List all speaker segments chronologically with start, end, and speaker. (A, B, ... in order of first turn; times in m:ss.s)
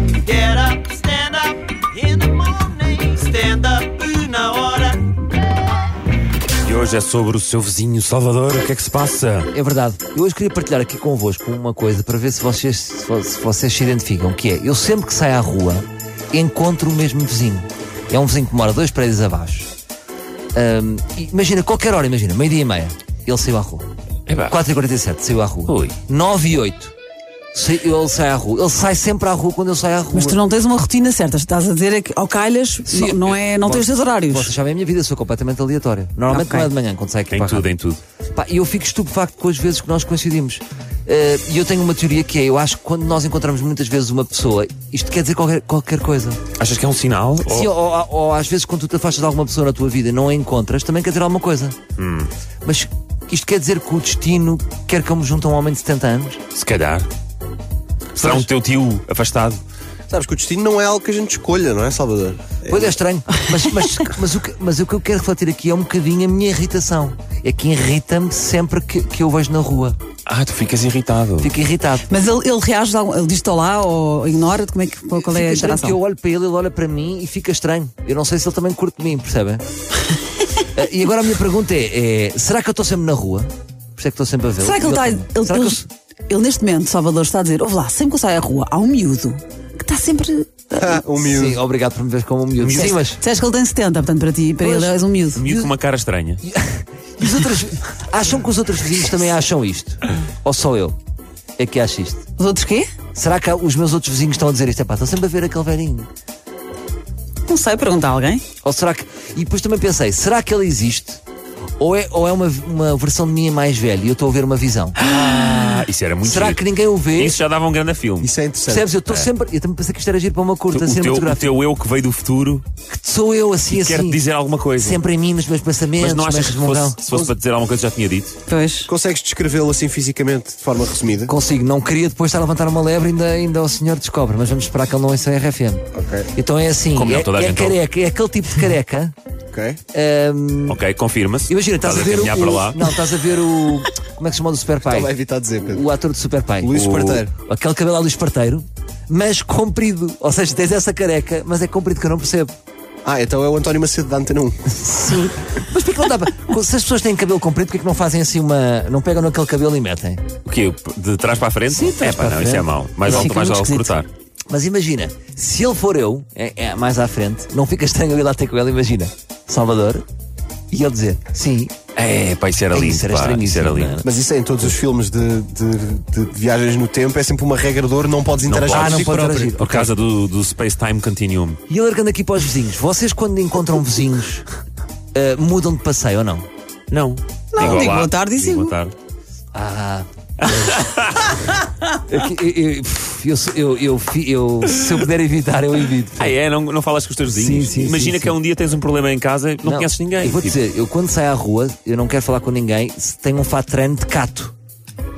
0:00.2-0:05.1 A
0:06.6-0:09.5 B
0:09.5-0:19.7 C
0:20.5-0:23.9 C
0:24.3-0:24.6 B
0:24.5-0:26.9 C
0:25.7-0:26.0 B
0:27.5-0:30.4 C
0:30.1-0:34.5 D
0:32.9-0:37.6 C
0:36.3-0:36.7 D
0:37.3-0:38.0 B
0:38.3-0:46.4 C
0:46.6-0:47.7 B
0:47.5-0:51.8 C
0:52.0-0:52.3 B
0:52.6-0:56.4 C
0:56.5-0:57.1 B
0:58.2-0:59.6 B
0:58.2-0:58.5 C
1:00.1-1:03.0 E
1:02.7-1:10.0 C
1:10.3-1:11.5 B
1:11.4-1:12.1 C
1:12.1-1:16.0 D
1:15.1-1:19.6 C
1:20.7-1:25.9 C
1:24.6-1:31.0 D
1:30.8-1:31.6 E
1:31.2-1:33.2 C
1:32.6-1:33.0 B
1:32.7-1:35.4 D
1:34.6-1:35.7 C
1:35.4-1:36.4 B
1:36.4-1:41.0 C
1:41.6-1:42.2 C
1:42.4-1:42.9 D
1:43.2-1:46.1 C
1:47.5-1:48.4 D
1:48.6-1:51.2 C
1:51.8-1:55.0 C
1:55.0-1:58.3 B
1:56.2-1:57.4 C
1:58.2-1:59.0 E
1:58.7-2:01.6 C
1:59.1-1:59.3 B
2:00.7-2:02.7 B
2:02.9-2:04.2 C
2:03.7-2:05.0 B
2:04.8-2:07.0 C
2:06.0-2:08.4 B
2:07.1-2:07.3 E
2:08.5-2:08.9 D
2:08.9-2:11.3 E
2:11.3-2:19.1 C
2:16.0-2:16.3 E
2:16.9-2:17.8 B
2:19.5-2:19.8 E
2:19.9-2:20.8 C
2:20.7-2:23.0 B
2:21.5-2:25.1 C
2:24.9-2:25.8 E
2:25.7-2:32.5 C
2:26.6-2:27.3 E
2:26.8-2:27.2 B
2:33.0-2:34.7 E
2:34.7-2:40.2 C
2:40.5-2:44.1 B
2:41.7-2:43.4 C
2:43.1-2:43.9 D
2:44.5-2:50.0 C
2:50.7-2:51.9 C
2:52.0-2:54.1 B
2:52.7-2:54.1 C
2:54.0-2:59.5 E
2:58.4-3:01.6 B
2:58.7-2:59.9 C
3:01.7-3:04.4 C
3:05.1-3:06.5 C
3:06.9-3:08.9 B
3:07.5-3:08.8 D
3:09.5-3:10.8 C
3:10.4-3:11.4 B
3:12.1-3:16.3 C
3:16.2-3:20.6 B
3:17.3-3:18.4 C
3:19.6-3:24.5 C